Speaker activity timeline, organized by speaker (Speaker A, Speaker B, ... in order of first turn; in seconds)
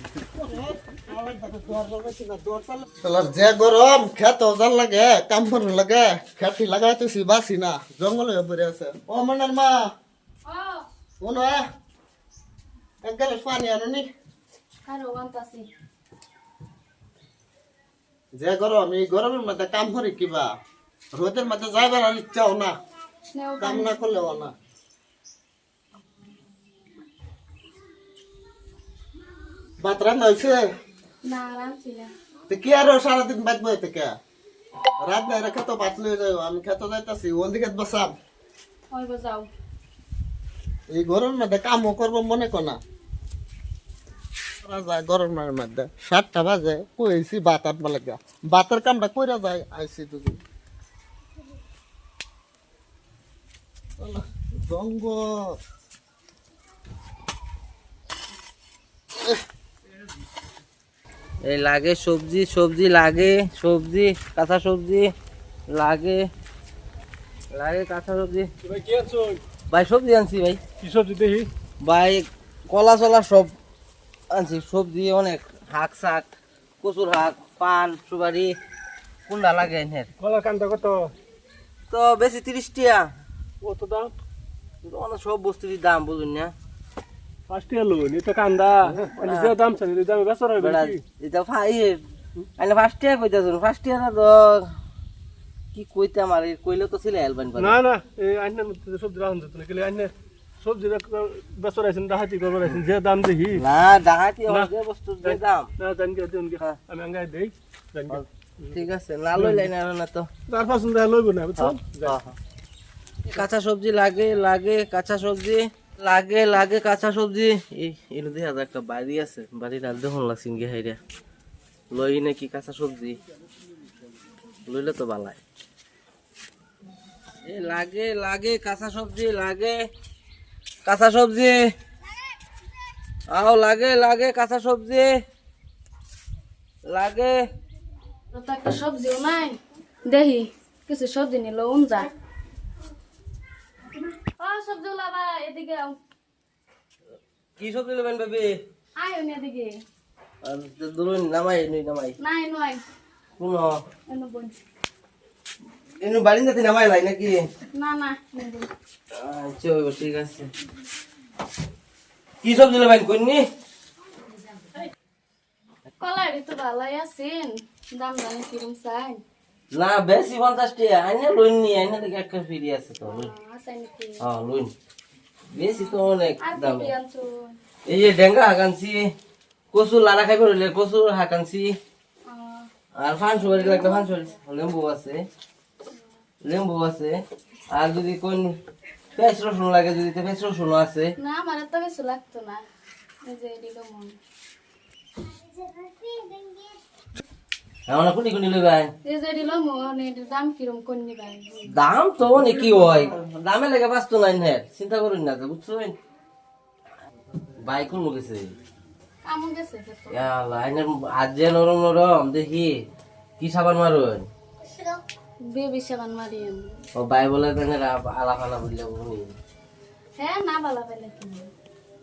Speaker A: 0.3-9.8, 11.2-11.6, 13.1-14.1, 18.4-20.5, 21.2-22.7, 23.6-24.5, 29.8-30.6, 32.5-34.1, 35.0-38.1, 40.9-42.8, 44.6-50.4, 54.0-55.3
Speaker B: 10.5-10.8, 14.9-15.7, 23.4-23.9, 31.3-32.1, 38.9-39.5, 138.3-142.1, 144.3-146.0, 149.0-149.7, 152.2-152.8, 154.1-154.6, 157.8-158.7, 166.0-169.2, 173.1-174.2, 176.4-177.5, 182.3-182.7, 183.5-184.3, 191.2-192.6, 193.2-194.2, 195.6-196.7, 199.1-201.7, 209.3-210.2, 215.4-216.7, 220.2-221.5
Speaker C: 61.5-65.1, 65.7-66.3, 67.5-68.5, 69.7-70.6, 71.8-73.5, 74.3-78.6, 79.3-80.1, 81.9-83.1, 84.8-86.5, 89.1-89.6, 90.6-92.0, 92.6-94.7, 95.7-97.8, 103.5-105.7, 108.1-110.3, 111.6-112.4, 113.3-121.0, 121.9-123.2, 124.7-125.4, 127.4-129.8, 130.8-131.6, 133.3-135.1, 136.9-137.4, 147.6-148.6, 150.4-152.2, 153.4-153.8, 156.0-157.4, 159.1-160.5, 162.4-163.4, 169.7-173.3, 174.2-174.7, 175.5-176.9, 177.9-179.1, 179.7-181.7, 183.0-185.2, 186.4-188.5, 189.2-191.2, 197.9-198.9, 201.7-205.9, 207.7-208.5, 210.1-212.8, 213.4-214.3, 217.0-219.3
Speaker D: 68.6-69.4, 70.8-71.5, 80.2-81.1, 83.6-84.2, 87.5-91.0, 97.6-103.6, 105.2-109.7, 110.5-112.2